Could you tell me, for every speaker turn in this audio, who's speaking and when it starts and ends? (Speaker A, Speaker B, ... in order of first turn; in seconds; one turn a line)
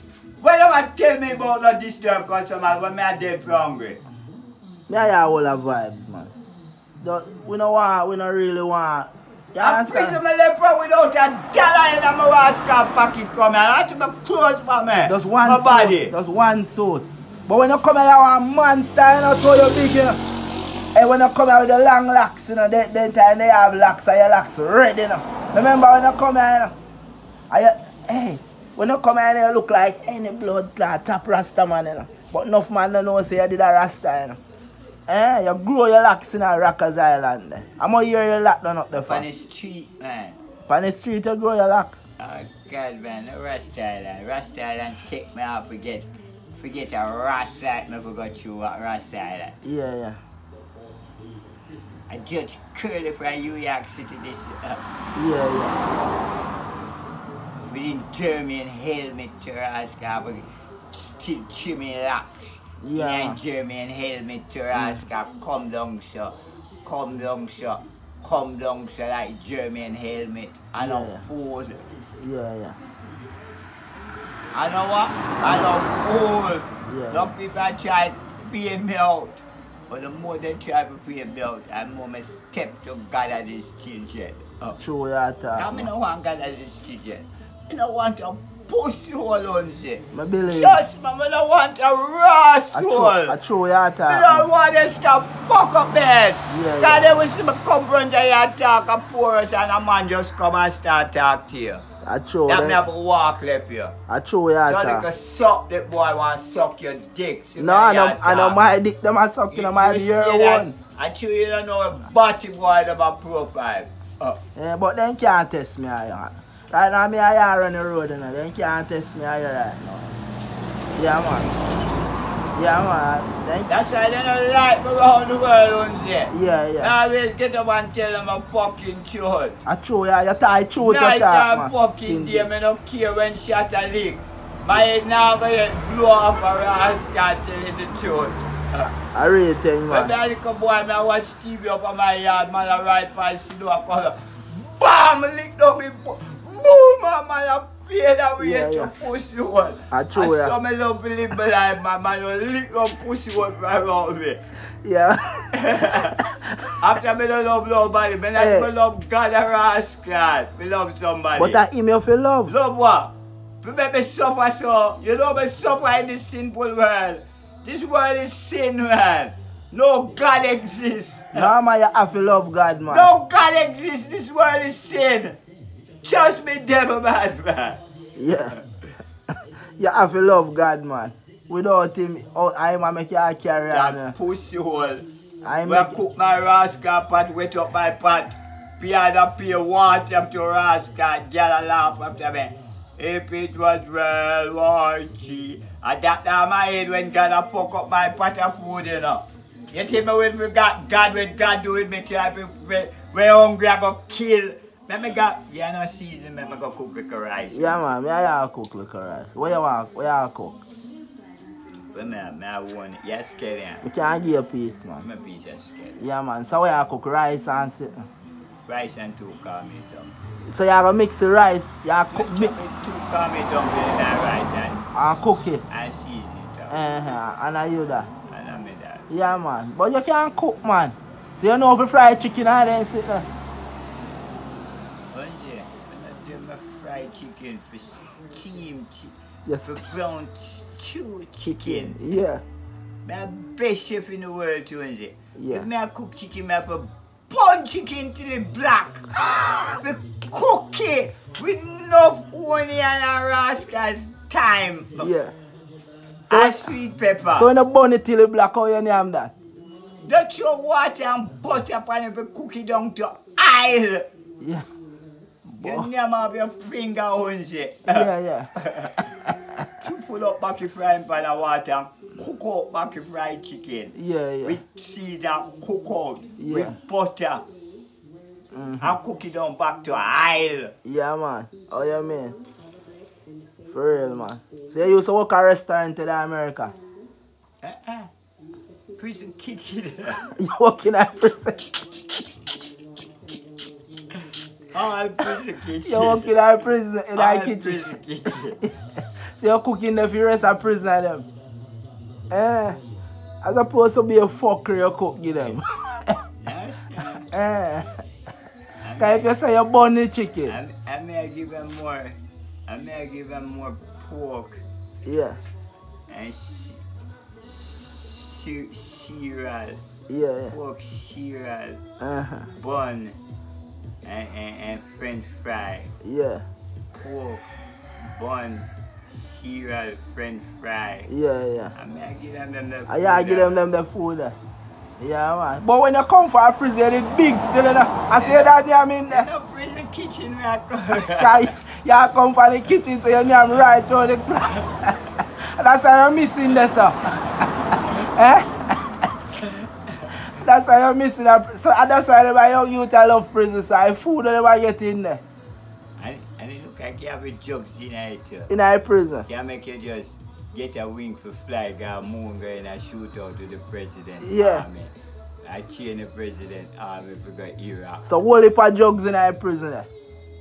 Speaker A: 0.4-4.0
Speaker B: 4.9-6.3
Speaker B: 7.0-10.2
Speaker A: 9.6-16.1
Speaker B: 15.0-20.2
Speaker B: 20.9-26.7
Speaker B: 27.5-34.4
Speaker B: 35.1-39.2
Speaker A: 38.9-40.4
Speaker B: 40.7-42.0
Speaker A: 42.2-49.5
Speaker B: 49.6-50.2
Speaker A: 52.1-54.8
Speaker B: 55.1-55.8
Speaker A: 57.7-71.8
Speaker B: 62.8-63.4
Speaker B: 64.7-65.0
Speaker B: 70.8-71.2
Speaker B: 72.2-72.8
Speaker A: 74.5-84.8
Speaker B: 76.9-77.3
Speaker B: 84.8-85.9
Speaker A: 85.6-93.3
Speaker B: 90.1-90.8
Speaker B: 92.7-94.5
Speaker A: 94.1-101.8
Speaker B: 96.5-97.0
Speaker B: 102.0-102.8
Speaker A: 102.5-103.9
Speaker B: 104.1-105.1
Speaker A: 104.6-108.6
Speaker B: 107.6-110.7
Speaker A: 109.5-114.4
Speaker B: 114.5-120.1
Speaker B: 121.0-121.5
Speaker B: 122.5-123.7
Speaker A: 123.7-129.6
Speaker B: 126.3-126.9
Speaker B: 129.7-132.5
Speaker A: 130.8-138.9
Speaker B: 139.1-140.1
Speaker A: 139.9-154.4
Speaker B: 148.4-148.9
Speaker B: 149.9-150.5
Speaker B: 154.8-156.7
Speaker A: 155.5-156.2
Speaker A: 156.8-161.6
Speaker B: 158.3-158.7
Speaker B: 161.4-162.5
Speaker A: 162.5-171.5
Speaker B: 171.3-173.1
Speaker A: 172.9-175.4
Speaker A: 176.0-177.8
Speaker B: 178.2-178.5
Speaker B: 179.8-184.1
Speaker A: 183.7-185.0
Speaker B: 185.4-185.9
Speaker A: 185.6-207.8
Speaker B: 207.5-210.6
Speaker A: 211.9-213.9
Speaker B: 213.8-215.0
Speaker A: 215.0-216.0
Speaker B: 216.0-218.1
Speaker A: 218.7-220.1
Speaker B: 220.5-222.5
Speaker A: 222.1-226.8
Speaker B: 224.9-225.6
Speaker B: 226.7-228.1
Speaker A: 228.3-229.1
Speaker B: 229.1-233.3
Speaker A: 235.1-242.2
Speaker B: 239.4-239.8
Speaker B: 241.6-242.4
Speaker A: 243.1-255.1
Speaker B: 245.3-245.7
Speaker B: 255.0-255.3
Speaker B: 256.2-256.7
Speaker A: 256.3-257.5
Speaker B: 257.4-259.3
Speaker A: 260.1-264.1
Speaker B: 264.4-264.6
Speaker B: 265.5-265.9
Speaker A: 265.6-269.1
Speaker B: 267.9-268.5
Speaker A: 269.8-277.4
Speaker B: 273.9-274.6
Speaker B: 276.4-276.7
Speaker B: 278.5-278.9
Speaker A: 278.8-280.7
Speaker B: 280.8-282.4
Speaker B: 283.7-286.7
Speaker A: 287.6-288.1
Speaker A: 289.0-290.2
Speaker B: 290.3-291.8
Speaker A: 294.7-296.4
Speaker B: 295.8-297.9
Speaker A: 297.1-298.6
Speaker B: 299.3-301.2
Speaker B: 302.3-302.8
Speaker B: 303.4-306.2
Speaker A: 306.4-307.3
Speaker B: 307.3-308.0
Speaker A: 308.8-309.3
Speaker B: 309.0-310.5
Speaker A: 310.5-314.6
Speaker B: 315.0-315.4
Speaker A: 316.1-316.8
Speaker A: 317.4-319.8
Speaker B: 320.1-320.5
Speaker A: 320.5-321.8
Speaker B: 322.0-322.5
Speaker A: 322.6-323.2
Speaker A: 324.0-325.9
Speaker B: 326.0-326.4
Speaker A: 326.9-327.4
Speaker A: 328.1-331.1
Speaker B: 331.1-331.7
Speaker A: 331.7-333.6
Speaker B: 332.9-334.4
Speaker B: 335.0-339.3
Speaker A: 338.2-338.5
Speaker A: 339.1-341.5
Speaker B: 340.9-349.1
Speaker A: 349.4-350.1
Speaker B: 350.3-355.2
Speaker A: 356.0-358.5
Speaker B: 358.5-359.2
Speaker A: 359.3-364.9
Speaker B: 364.2-364.6
Speaker A: 365.4-368.0
Speaker B: 368.0-369.9